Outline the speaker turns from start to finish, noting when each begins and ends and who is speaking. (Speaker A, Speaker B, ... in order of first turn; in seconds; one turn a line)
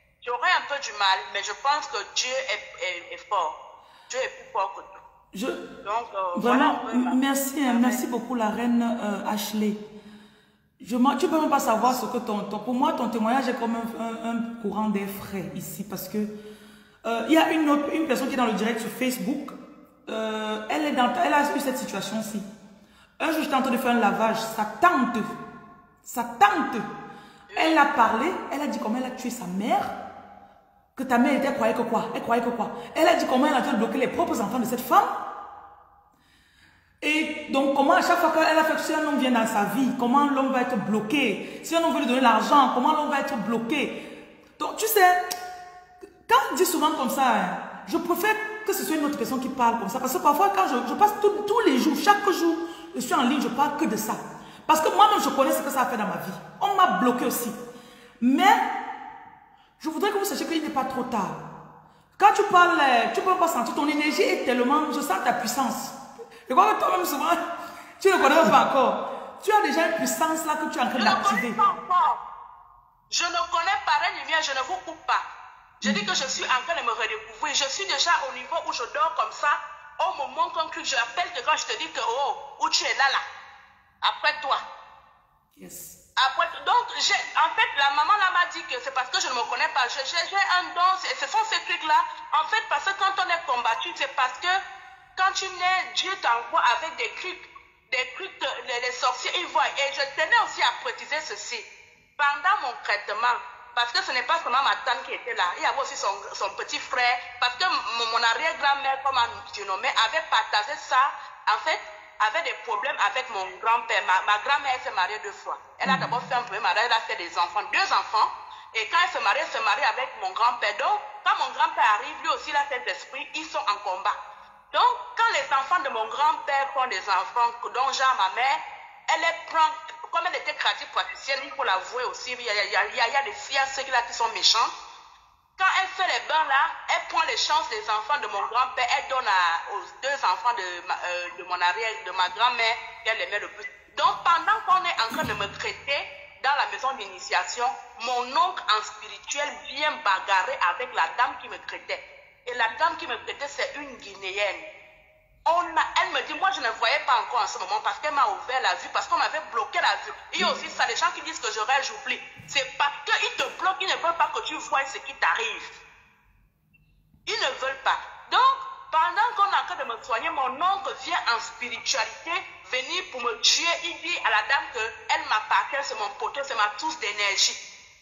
Speaker A: 0.2-3.6
Speaker A: 4.1-5.0
Speaker B: 5.3-5.7
Speaker A: 5.8-8.0
Speaker B: 6.3-9.8
Speaker B: 10.8-16.3
Speaker B: 17.0-19.6
Speaker B: 20.1-22.4
Speaker B: 23.2-25.4
Speaker B: 26.0-26.9
Speaker A: 27.5-27.8
Speaker B: 27.6-30.0
Speaker B: 31.0-35.1
Speaker B: 37.0-44.0
Speaker B: 44.6-45.2
Speaker B: 46.3-57.6
Speaker B: 58.2-58.6
Speaker B: 59.8-61.5
Speaker B: 62.2-66.0
Speaker B: 66.5-67.4
Speaker B: 68.0-71.6
Speaker A: 71.0-72.2
Speaker A: 73.1-75.2
Speaker A: 75.8-83.2
Speaker A: 84.0-84.6
Speaker B: 85.6-86.0
Speaker A: 86.2-94.6
Speaker A: 95.2-101.7
Speaker A: 102.2-124.2
Speaker B: 115.8-116.2
Speaker A: 124.7-134.7
Speaker A: 135.6-154.7
Speaker A: 155.4-165.8
Speaker A: 167.3-177.6